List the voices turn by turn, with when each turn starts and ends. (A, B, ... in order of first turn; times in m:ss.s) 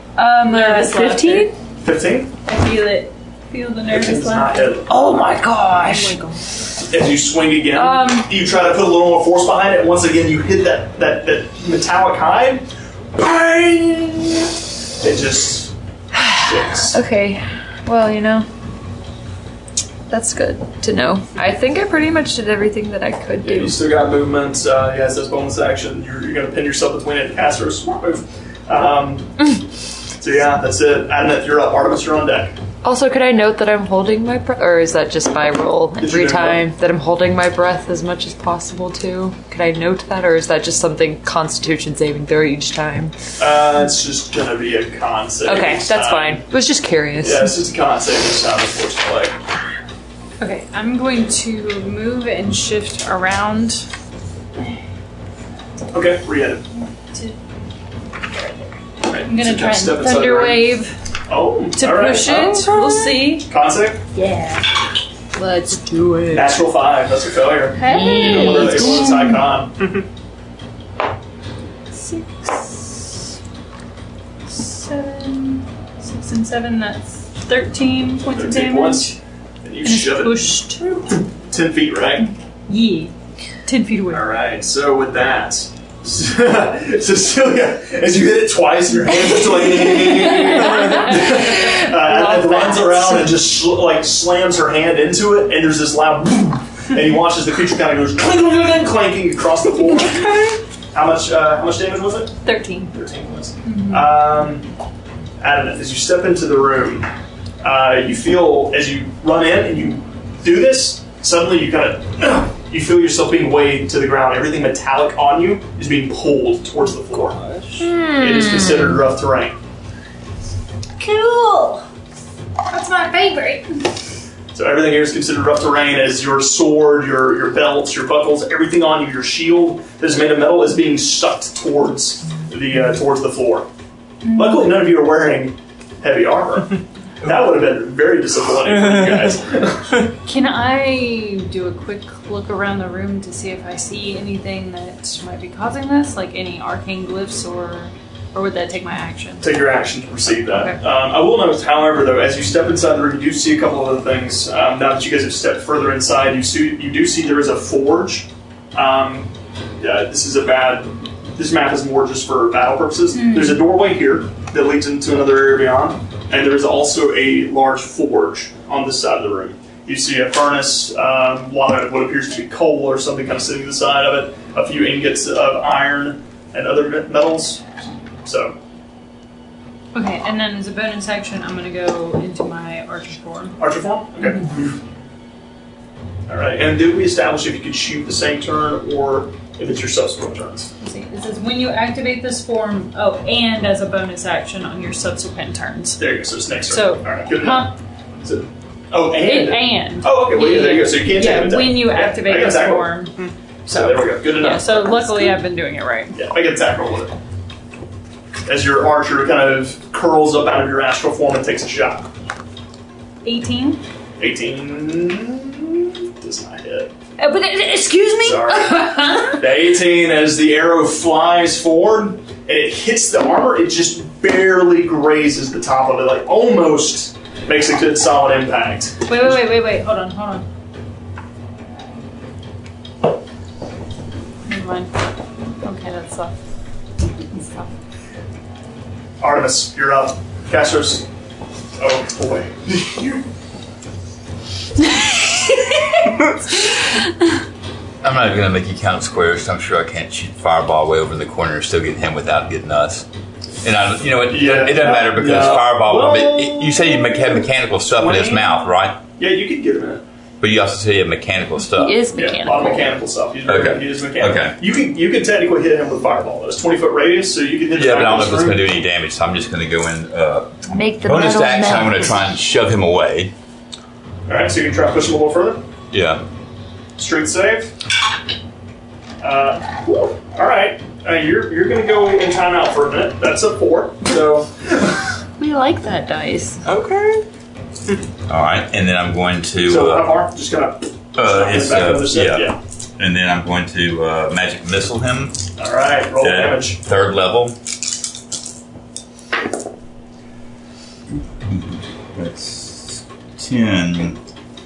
0:00.2-0:01.6 A
0:00.4-0:01.5 B
0:01.8-0:02.3 C
0:02.5-0:04.7 B
0:03.9-0:05.3 C
0:04.9-0:06.4 A
0:05.8-0:06.3 B
0:06.8-0:15.7 C
0:07.8-0:08.3 A
0:16.1-0:18.5 A
0:16.3-0:17.0 C
0:20.1-0:23.8 A
0:23.4-0:29.6 C
0:30.2-0:32.6 C
0:32.8-0:43.1 A
0:36.0-0:36.7 C
0:43.4-0:46.5 C
0:45.4-0:47.5 A
0:47.2-0:49.4 C
0:50.4-0:53.9 B
0:55.9-0:56.7 C
0:57.0-0:57.4 B
0:59.0-1:02.5 C
0:59.2-1:00.9 B
1:01.8-1:03.5 B
1:02.3-1:02.8 D
1:02.7-1:03.3 A
1:03.4-1:04.0 C
1:04.2-1:04.5 A
1:05.4-1:05.8 B
1:06.1-1:06.4 D
1:06.3-1:09.8 C
1:07.8-1:09.2 B
1:07.8-1:09.4 A
1:11.9-1:13.1 B
1:14.5-1:19.1 B
1:18.3-1:22.3 C
1:19.8-1:21.1 B
1:22.7-1:23.1 B
1:23.6-1:24.3 B
1:24.1-1:42.4 C
1:30.2-1:33.4 A
1:42.5-1:42.9 A
1:42.9-1:44.7 C
1:43.6-1:44.1 B
1:45.4-1:47.1 C
1:47.6-1:57.4 C
1:57.8-1:59.0 A
1:58.2-1:59.6 C
2:01.0-2:01.7 B
2:01.1-2:01.6 A
2:02.7-2:03.7 B
2:04.5-2:13.7 C
2:14.2-2:14.7 B
2:14.3-2:20.0 C
2:18.7-2:19.3 D
2:20.2-2:29.6 B
2:29.4-2:57.7 C
2:30.5-2:30.8 B
2:43.2-2:43.6 B
2:58.2-2:58.6 C
2:59.9-3:03.6 B
3:03.6-3:04.8 C
3:06.3-3:10.7 C
3:10.8-3:16.1 B
3:16.0-3:23.0 C
3:16.6-3:17.7 B
3:19.2-3:23.2 B
3:23.2-3:23.9 D
3:23.7-3:25.4 C
3:24.2-3:26.2 B
3:26.1-3:27.2 C
3:28.5-3:32.1 C
3:33.2-3:33.8 B
3:34.2-3:36.9 C
3:37.2-3:39.4 B
3:38.2-3:49.4 C
3:49.1-3:50.4 B
3:54.5-3:54.9 B
3:55.6-3:56.3 B
3:57.3-3:57.7 B
3:59.2-4:01.1 C
4:01.8-4:03.2 C
4:08.0-4:13.1 E
4:13.6-4:19.0 E
4:14.3-4:17.4 C
4:18.0-4:18.6 C
4:19.2-4:20.0 C
4:20.4-4:22.0 E
4:21.8-4:22.9 A
4:22.1-4:28.6 C
4:23.5-4:24.6 E
4:27.7-4:33.3 E
4:30.7-4:32.1 A
4:34.3-4:35.6 C
4:35.9-4:36.2 E
4:37.0-4:37.7 C
4:39.2-4:45.0 C
4:45.4-4:46.6 A
4:46.6-4:47.2 D
4:48.3-4:50.2 E
4:49.6-4:52.6 C
4:51.2-4:55.4 E
4:55.6-4:56.8 C
4:56.2-4:57.6 E
5:01.4-5:04.2 E